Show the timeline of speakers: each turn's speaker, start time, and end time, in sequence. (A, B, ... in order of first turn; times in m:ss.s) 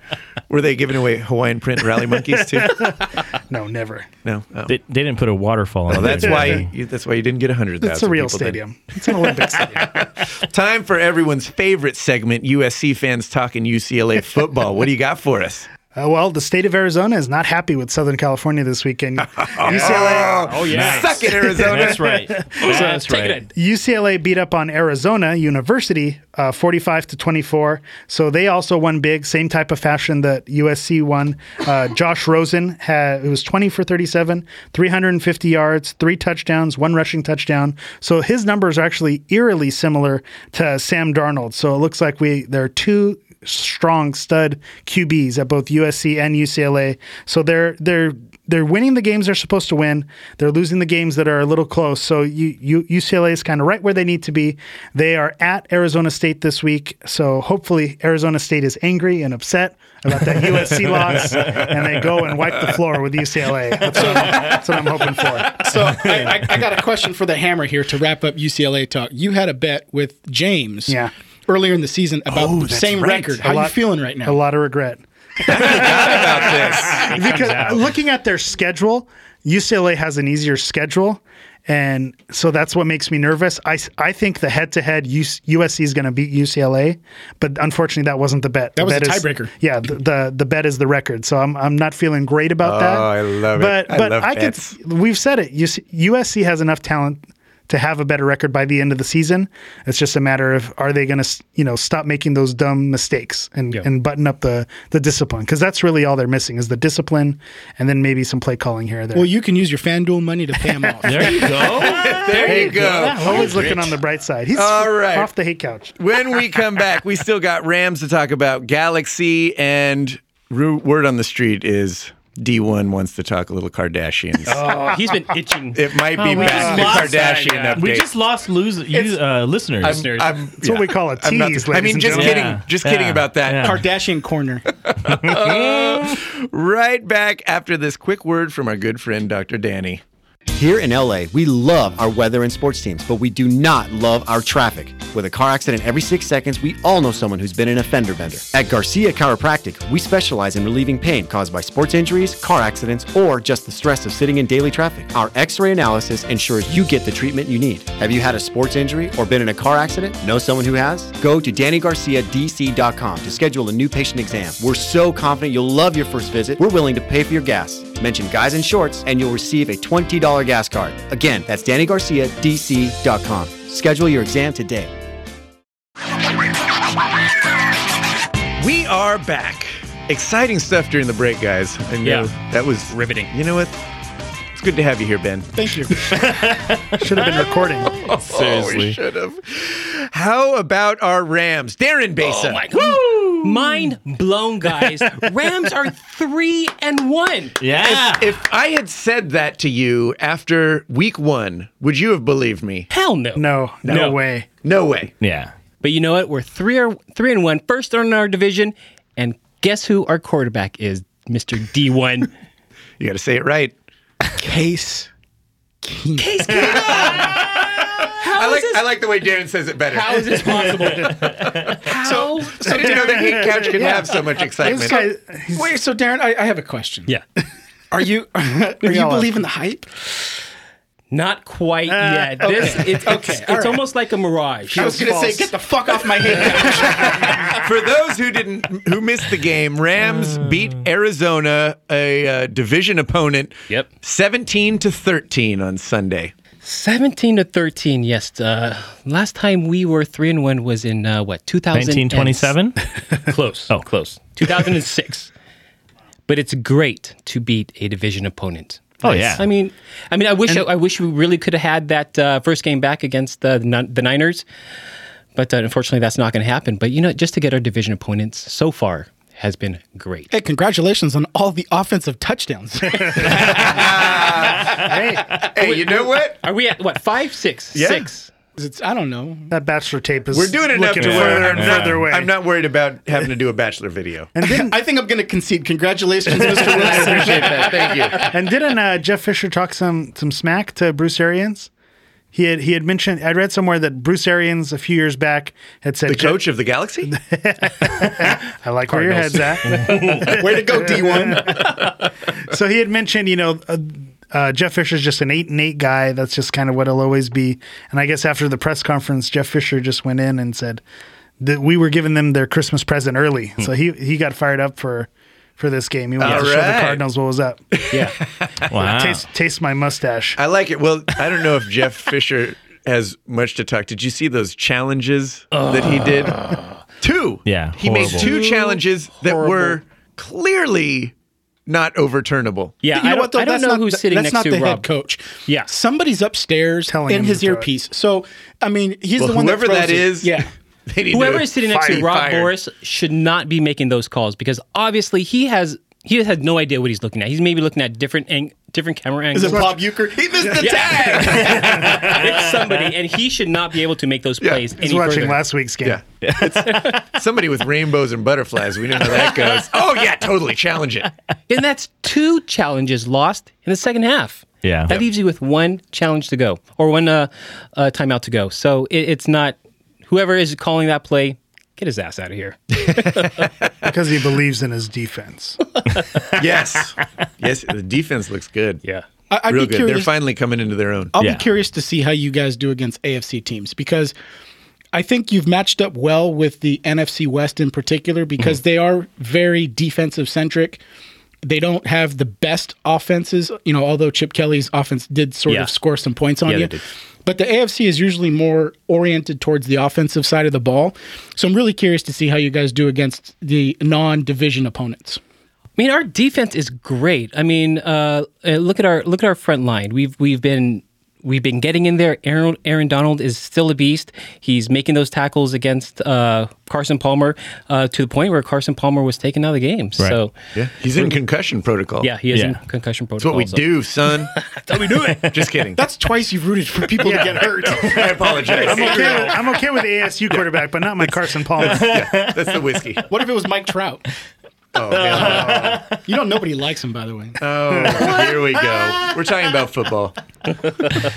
0:00.5-0:03.0 A
0:02.5-0:04.1 B
0:04.2-0:04.8 A
0:04.7-0:06.7 C
0:05.9-0:15.7 A
0:06.0-0:06.6 B
0:07.8-0:10.1 B
0:16.0-0:20.8 B
0:19.3-0:23.4 A
0:19.9-0:21.6 D
0:20.7-0:23.1 C
0:21.7-0:22.8 B
0:22.6-0:23.5 D
0:23.5-1:05.7 B
1:00.9-1:01.6 A
1:03.9-1:04.5 E
1:05.6-1:14.4 E
1:10.9-1:11.1 B
1:12.4-1:49.3 B
1:15.4-1:17.7 A
1:17.0-1:17.8 C
1:28.8-1:29.5 E
1:32.6-1:34.8 A
1:49.1-1:51.9 E
1:51.0-1:53.9 C
1:51.8-1:53.9 A
1:52.4-1:56.0 B
1:54.5-1:55.3 A
1:56.0-2:04.6 A
2:04.4-2:07.9 D
2:04.7-2:05.0 B
2:05.7-2:08.1 A
2:06.3-2:10.1 C
2:09.8-2:13.8 A
2:09.9-2:10.4 D
2:10.6-2:12.6 B
2:12.1-2:13.8 C
2:13.6-2:14.6 E
2:14.7-2:20.0 A
2:15.1-2:16.2 C
2:20.5-2:54.9 F
2:58.6-3:03.8 A
3:02.0-3:02.3 D
3:02.9-3:03.3 D
3:04.6-3:05.5 A
3:05.5-3:06.0 E
3:06.0-3:07.4 C
3:07.0-3:08.0 B
3:07.9-3:12.7 A
3:08.0-3:09.0 C
3:12.2-3:17.6 D
3:12.7-3:13.8 C
3:17.6-3:18.4 C
3:17.8-3:22.9 A
3:22.9-3:24.1 D
3:23.4-3:24.5 B
3:23.9-3:25.1 A
3:25.2-3:25.5 C
3:25.8-3:32.3 D
3:33.0-3:33.7 A
3:34.4-3:35.1 E
3:35.8-3:36.8 E
3:36.2-3:38.9 D
3:36.8-3:41.8 A
3:39.9-3:42.8 D
3:42.0-3:44.1 E
3:42.5-3:45.0 A
3:43.1-3:44.0 B
3:44.6-3:45.7 B
3:45.5-3:47.1 E
3:47.9-3:49.9 E
3:48.8-3:49.4 B
3:51.1-3:55.0 D
3:52.1-3:52.7 B
3:52.4-3:53.8 E
3:54.7-3:55.6 B
3:54.7-3:57.6 E
3:56.6-3:57.3 B
3:56.9-4:06.3 A
4:06.6-4:12.6 D
4:11.7-4:12.8 C
4:13.2-4:15.3 D
4:16.3-4:24.4 D
4:19.0-4:19.4 C
4:19.1-4:19.3 B
4:25.4-4:30.3 D
4:30.3-4:34.3 E
4:33.0-4:33.3 B
4:33.2-4:36.4 A
4:34.7-4:35.4 B
4:35.6-4:38.3 D
4:37.7-4:38.1 A
4:38.6-4:39.5 E
4:39.5-4:42.4 B
4:40.3-4:44.3 A
4:41.0-4:42.0 C
4:44.4-4:44.8 B
4:44.5-4:48.1 E
4:46.4-4:47.6 B
4:47.0-4:48.3 A
4:48.2-4:51.7 B
4:52.3-4:56.4 B
4:56.1-4:57.2 A
4:57.1-5:01.8 B
4:58.9-4:59.5 C
4:59.9-5:01.6 E
5:02.4-5:10.8 B
5:11.4-5:17.6 B
5:16.2-5:17.0 A
5:17.9-5:18.2 D
5:18.4-5:18.6 A
5:18.7-5:19.3 C
5:18.9-5:20.4 B
5:20.4-5:26.4 A
5:25.5-5:26.8 D
5:27.0-5:31.1 A
5:27.5-5:28.3 C
5:28.0-5:29.8 D
5:31.7-5:32.8 A
5:32.8-5:34.9 D
5:32.9-5:40.5 E
5:35.5-5:35.7 D
5:36.9-5:37.7 B
5:39.2-5:42.5 A
5:41.1-5:49.8 D
5:41.7-5:42.1 B
5:49.3-5:51.8 E
5:49.5-5:49.8 B
5:50.1-5:52.0 A
5:50.6-5:55.4 D
5:51.6-5:52.7 C
5:54.4-5:54.7 A
5:54.8-5:56.0 B
5:55.8-6:01.1 A
5:56.2-5:57.0 C
5:56.7-5:56.9 D
6:01.5-6:13.5 D
6:04.6-6:05.0 C
6:13.8-6:15.6 B
6:16.3-6:18.8 A
6:19.3-6:20.1 E
6:19.5-6:21.2 A
6:21.2-6:24.1 E
6:21.2-6:21.4 C
6:24.9-6:30.8 E
6:31.4-6:45.2 E
6:45.8-7:00.4 D
7:00.5-7:02.1 A
7:02.0-7:03.8 D
7:02.3-7:02.6 C
7:03.2-7:04.3 A
7:04.4-7:05.3 D
7:04.8-7:05.3 C
7:05.3-7:05.8 A
7:05.8-7:09.4 E
7:07.0-7:07.5 B
7:07.7-7:09.4 A
7:08.6-7:12.1 B
7:11.6-7:13.0 A
7:11.6-7:12.6 C
7:13.1-7:14.0 E
7:14.8-7:15.8 A
7:14.9-7:16.0 C
7:15.2-7:17.4 E
7:15.2-7:15.8 B
7:17.4-7:20.2 A